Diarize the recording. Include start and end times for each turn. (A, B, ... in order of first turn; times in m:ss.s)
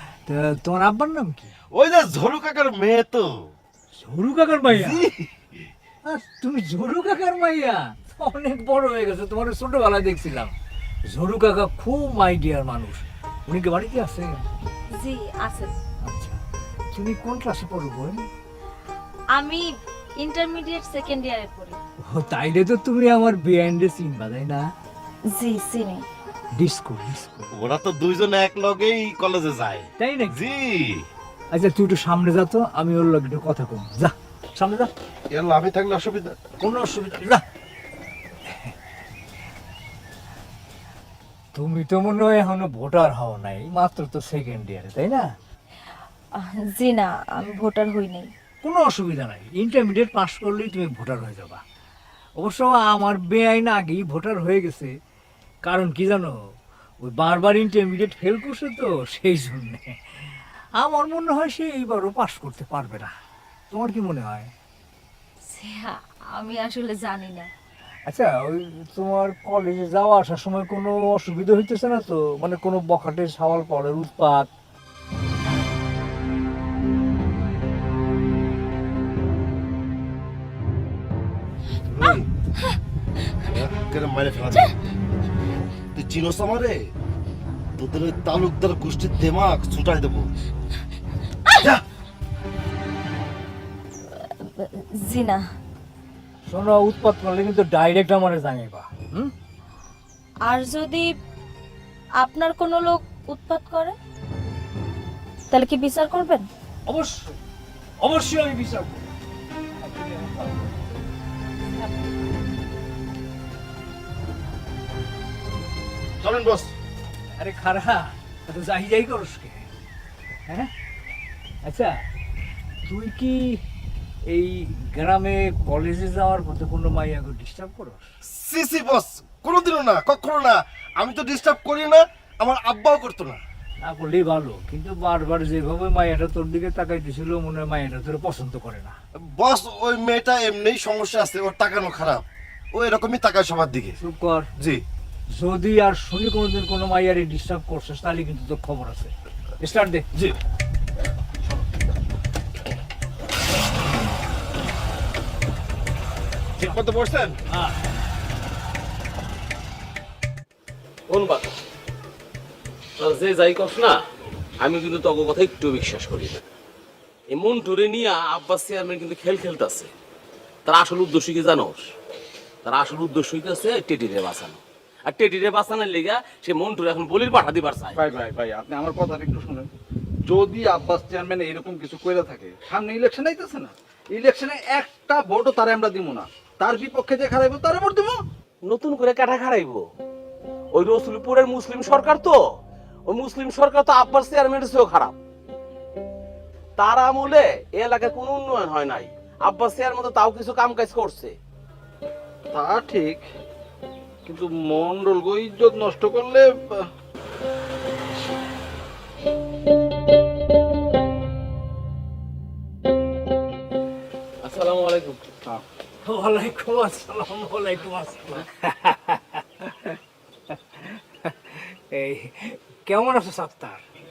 0:00.3-0:01.5 A
0:01.7-0:03.5 B
0:04.0-0:05.0 A
0:04.7-0:05.6 B
0:06.1-0:10.5 A
0:11.1-0:14.4 A
0:15.0-0:15.8 C
0:16.0-0:16.4 A
0:16.9-0:18.3 A
0:19.4-0:19.7 C
0:20.2-0:21.8 C
0:22.1-0:24.7 A
0:25.3-0:26.0 C
0:26.6-0:27.5 A
0:27.5-0:31.0 B
0:30.0-0:30.4 A
0:31.5-0:34.9 A
0:35.3-0:36.4 B
0:36.6-0:37.4 A
0:41.6-0:45.3 A
0:46.4-0:48.3 C
0:48.6-0:51.6 A
0:52.4-0:54.9 A
0:55.6-0:56.4 A
0:57.0-1:03.1 A
1:03.7-1:04.5 A
1:05.5-1:07.5 C
1:08.1-1:14.5 A
1:21.8-1:22.3 B
1:23.4-1:24.8 B
1:25.9-1:26.8 B
1:27.8-1:30.3 B
1:35.0-1:35.4 C
1:36.5-1:39.3 A
1:40.5-1:41.1 C
1:42.2-1:44.0 C
1:45.5-1:46.4 C
1:46.9-1:47.4 A
1:48.0-1:49.1 A
1:49.8-1:50.5 A
1:56.2-1:56.7 B
1:57.4-1:59.7 A
2:01.6-2:02.0 A
2:02.8-2:03.6 A
2:04.3-2:08.1 A
2:08.2-2:13.4 B
2:13.8-2:19.0 A
2:19.2-2:24.0 B
2:24.0-2:24.5 A
2:24.6-2:24.8 B
2:25.4-2:30.1 A
2:36.6-2:37.4 B
2:41.1-2:41.5 D
2:43.0-2:44.0 D
2:44.6-2:46.4 D
2:47.3-2:49.9 D
2:50.7-2:51.8 D
2:52.6-2:58.0 D
2:57.9-2:59.7 E
3:00.2-3:08.2 E
3:08.7-3:09.8 D
3:10.7-3:12.4 D
3:13.1-3:15.2 D
3:16.8-3:21.4 D
3:22.5-3:23.2 E
3:24.2-3:26.9 E
3:34.4-3:35.2 D
3:36.0-3:40.0 A
3:40.5-3:43.8 A